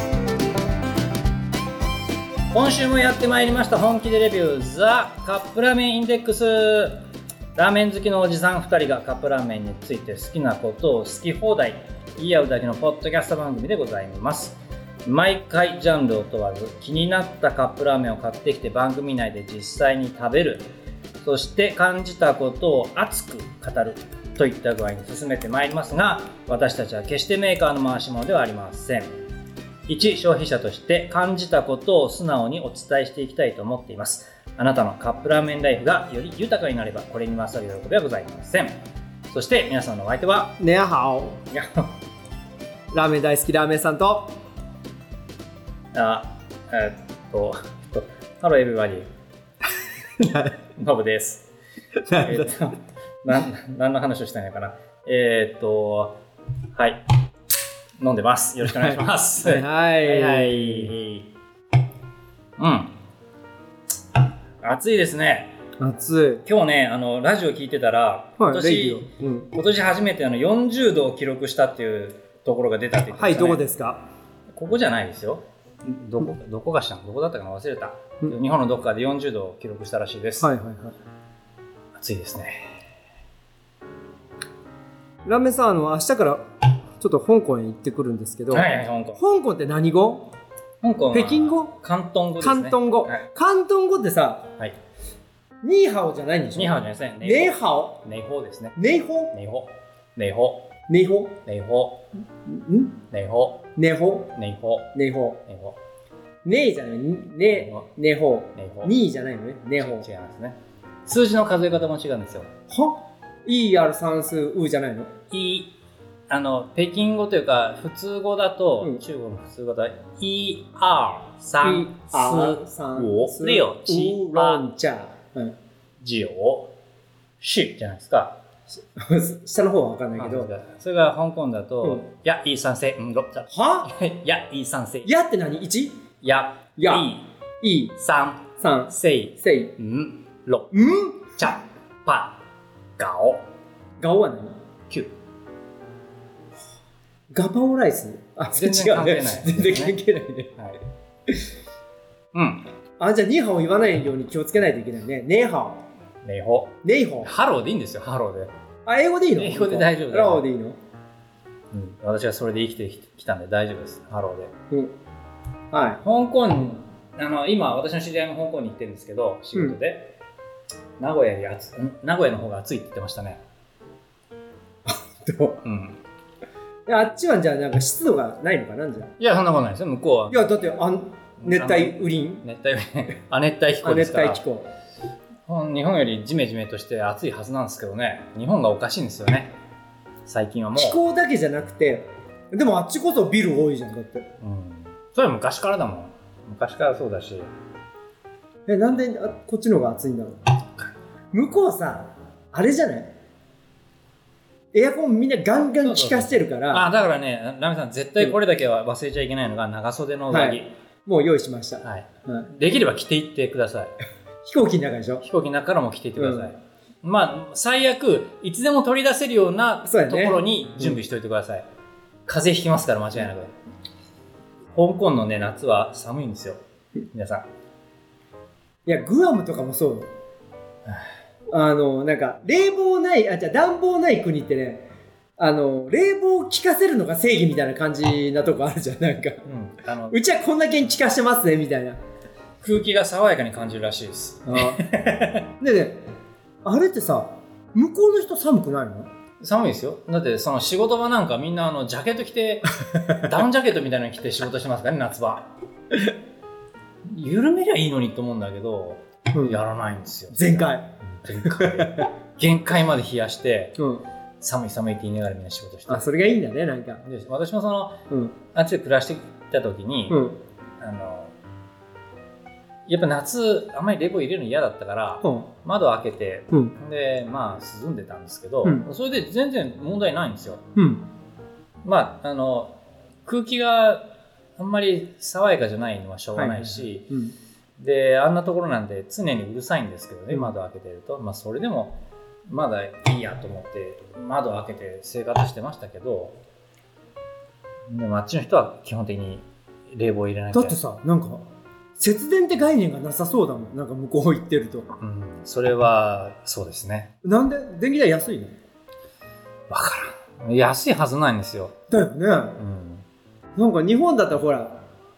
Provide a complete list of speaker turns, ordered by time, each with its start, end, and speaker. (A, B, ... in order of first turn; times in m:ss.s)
0:02.5-0:07.0 A
0:07.6-0:20.7 A
0:21.2-0:29.1 A
0:29.9-0:40.6 A
0:40.6-0:41.4 B
0:41.5-0:41.9 A
0:42.9-0:44.3 B
0:45.9-0:49.1 A
0:50.7-0:51.5 A
0:52.0-0:52.5 B
0:52.1-0:56.2 A
0:56.7-0:57.0 A
0:58.0-1:01.3 A
0:58.6-1:00.9 B
1:02.6-1:03.0 A
1:04.6-1:05.6 A
1:05.8-1:06.4 B
1:06.5-1:13.6 A
1:08.4-1:09.5 B
1:13.1-1:14.0 B
1:14.5-1:20.5 A
1:20.4-1:21.0 B
1:22.0-1:22.7 A
1:25.2-1:26.5 B
1:27.0-1:30.3 B
1:28.5-1:29.2 A
1:30.8-1:33.2 A
1:31.1-1:31.7 B
1:32.4-1:34.5 B
1:35.6-1:38.0 B
1:36.5-1:38.8 A
1:38.8-1:39.3 B
1:39.3-1:40.7 A
1:40.9-1:41.4 B
1:41.4-1:42.0 A
1:42.5-1:43.0 B
1:43.1-1:43.6 A
1:43.8-1:44.3 B
1:44.4-1:44.9 A
1:44.9-1:45.4 B
1:45.5-1:45.8 A
1:46.4-1:50.1 B
1:47.5-1:47.9 A
1:48.6-1:49.0 A
1:49.8-1:52.5 A
1:52.7-1:55.1 B
1:55.3-1:55.7 A
1:56.3-2:04.6 A
2:01.6-2:05.6 B
2:06.0-2:06.7 A
2:07.4-2:08.4 A
2:09.0-2:10.5 B
2:10.2-2:15.1 A
2:13.5-2:13.9 B
2:15.0-2:16.0 B
2:16.2-2:17.3 A
2:16.8-2:17.1 B
2:17.6-2:18.0 B
2:18.0-2:22.4 A
2:18.6-2:19.8 B
2:20.7-2:21.4 B
2:23.0-2:23.4 A
2:24.0-2:24.6 B
2:27.3-2:30.6 B
2:28.5-2:30.0 A
2:32.3-2:32.6 A
2:33.0-2:35.8 B
2:36.2-2:38.5 A
2:36.8-2:37.3 B
2:38.9-2:40.8 B
2:39.4-2:40.5 A
2:41.7-2:44.5 A
2:45.7-2:46.0 B
2:46.0-2:50.1 A
2:51.0-2:53.4 A
2:54.9-2:55.6 B
2:55.6-2:56.0 A
2:56.9-2:59.1 B
2:59.2-3:00.5 A
3:00.3-3:02.4 B
3:01.4-3:04.4 A
3:03.8-3:04.7 B
3:05.5-3:09.5 A
3:10.3-3:11.0 A
3:10.8-3:14.3 B
3:14.4-3:17.5 A
3:18.7-3:20.4 B
3:21.3-3:23.1 B
3:24.7-3:26.9 B
3:25.8-3:30.7 A
3:30.3-3:32.5 B
3:31.8-3:33.9 A
3:34.4-3:35.2 B
3:35.2-3:41.7 A
3:36.2-3:36.5 B
3:39.9-3:41.0 B
3:42.3-3:43.5 A
3:44.7-3:46.6 A
3:47.1-3:47.5 A
3:48.9-3:50.1 B
3:51.5-3:54.9 B
3:55.4-3:59.4 B
3:59.4-4:00.2 A
4:00.1-4:02.0 B
4:02.6-4:05.5 A
4:04.5-4:04.9 B
4:05.6-4:06.0 B
4:06.6-4:09.1 B
4:09.4-4:15.5 A
4:17.0-4:23.8 A
4:19.3-4:19.6 B
4:20.3-4:20.9 B
4:21.4-4:22.1 B
4:23.8-4:24.0 B
4:24.4-4:26.1 A
4:25.9-4:27.0 B
4:27.0-4:28.0 A
4:28.1-4:28.4 B
4:28.5-4:30.2 A
4:30.1-4:30.4 B
4:30.8-4:31.3 A
4:32.9-4:40.6 A
4:35.2-4:35.5 B
4:40.8-4:41.0 B
4:41.8-4:47.1 A
4:46.4-4:47.3 B
4:47.8-4:56.4 A
4:57.9-5:00.8 A
5:00.5-5:01.4 B
5:02.0-5:04.9 B
5:05.0-5:07.1 A
5:07.2-5:08.6 B
5:09.7-5:11.8 A
5:11.9-5:12.6 B
5:12.6-5:13.0 A
5:13.6-5:14.8 B